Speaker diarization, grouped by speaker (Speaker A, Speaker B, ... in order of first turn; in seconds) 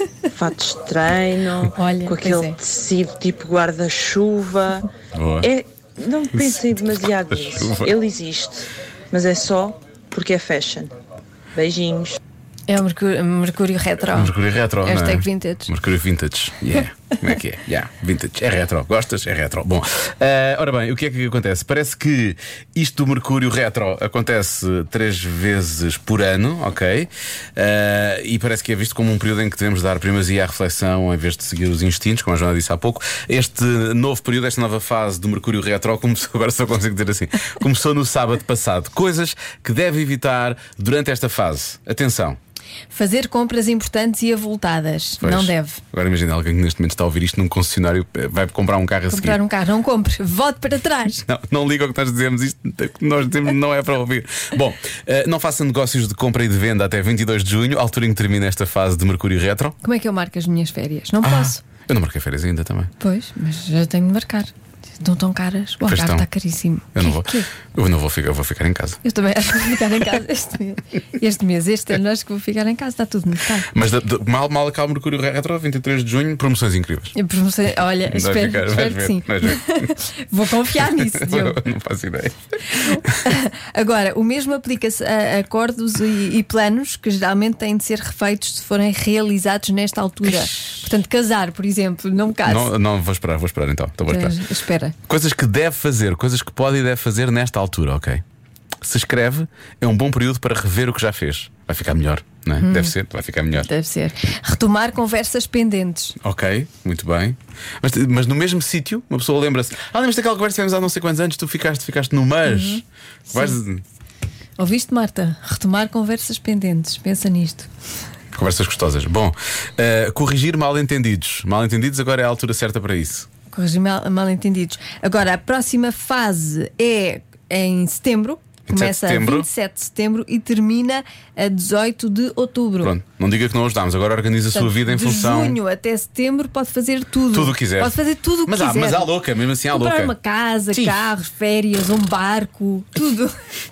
Speaker A: 0.3-4.9, 5.4-10.9, 11.5-12.2
Speaker B: 1.6-2.6, 12.7-15.7, 42.9-45.8, 49.1-51.2, 59.8-61.6, 63.0-67.5, 69.0-73.7, 77.2-81.6, 82.8-92.7, 94.1-94.9, 102.6-102.9, 103.6-106.2, 112.4-113.6, 114.6-117.7, 123.5-132.9, 134.5-139.1, 139.7-143.4
Speaker C: 5.1-5.5, 6.4-6.7, 7.4-7.9, 14.1-42.4, 45.2-49.4, 51.2-59.8, 61.2-62.9, 65.8-66.3, 66.9-69.0, 73.7-77.2, 78.1-79.9, 80.7-83.1, 92.4-94.4, 95.1-98.2, 98.8-103.7, 106.2-113.8, 118.3-123.3, 128.7-129.5, 132.8-135.6, 137.3-140.1, 140.7-141.0